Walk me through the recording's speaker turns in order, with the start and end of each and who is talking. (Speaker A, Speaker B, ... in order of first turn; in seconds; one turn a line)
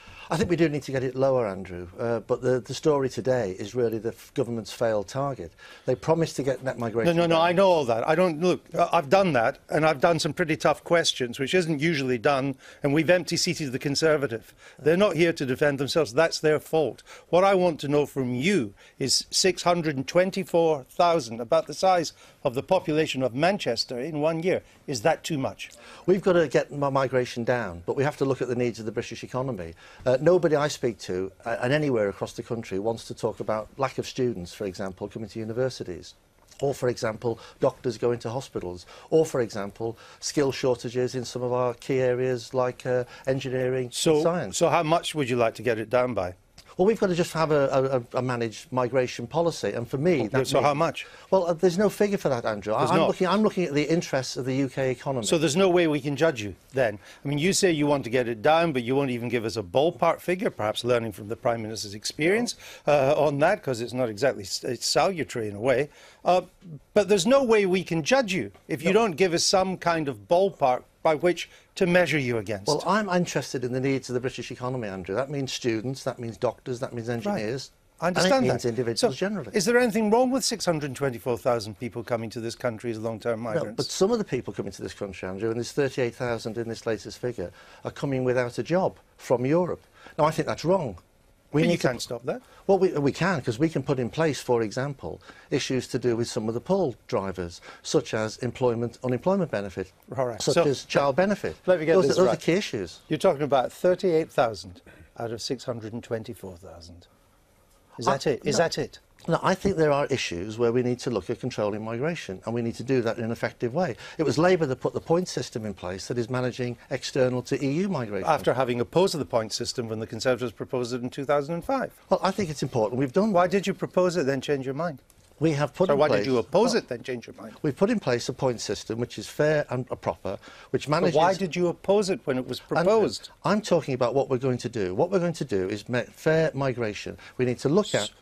Speaker A: 0.3-7.6
Speaker B: 7.0-25.7
Speaker A: 26.1-44.5
Speaker B: 43.9-46.3
Speaker A: 46.8-55.4
Speaker B: 50.2-51.1
Speaker B: 52.8-53.2
Speaker B: 55.2-72.8
Speaker A: 72.7-79.6
Speaker B: 78.0-83.9
Speaker A: 83.5-91.0
Speaker B: 91.5-92.4
Speaker A: 91.5-92.0
Speaker A: 92.7-103.0
Speaker B: 100.1-101.0
Speaker B: 101.6-102.4
Speaker B: 103.1-107.1
Speaker B: 108.0-109.0
Speaker A: 108.0-108.6
Speaker A: 109.2-118.5
Speaker B: 118.2-121.9
Speaker A: 122.1-123.5
Speaker B: 123.3-125.0
Speaker A: 125.4-126.8
Speaker B: 125.8-127.6
Speaker A: 127.6-131.4
Speaker B: 131.0-133.2
Speaker A: 132.7-138.1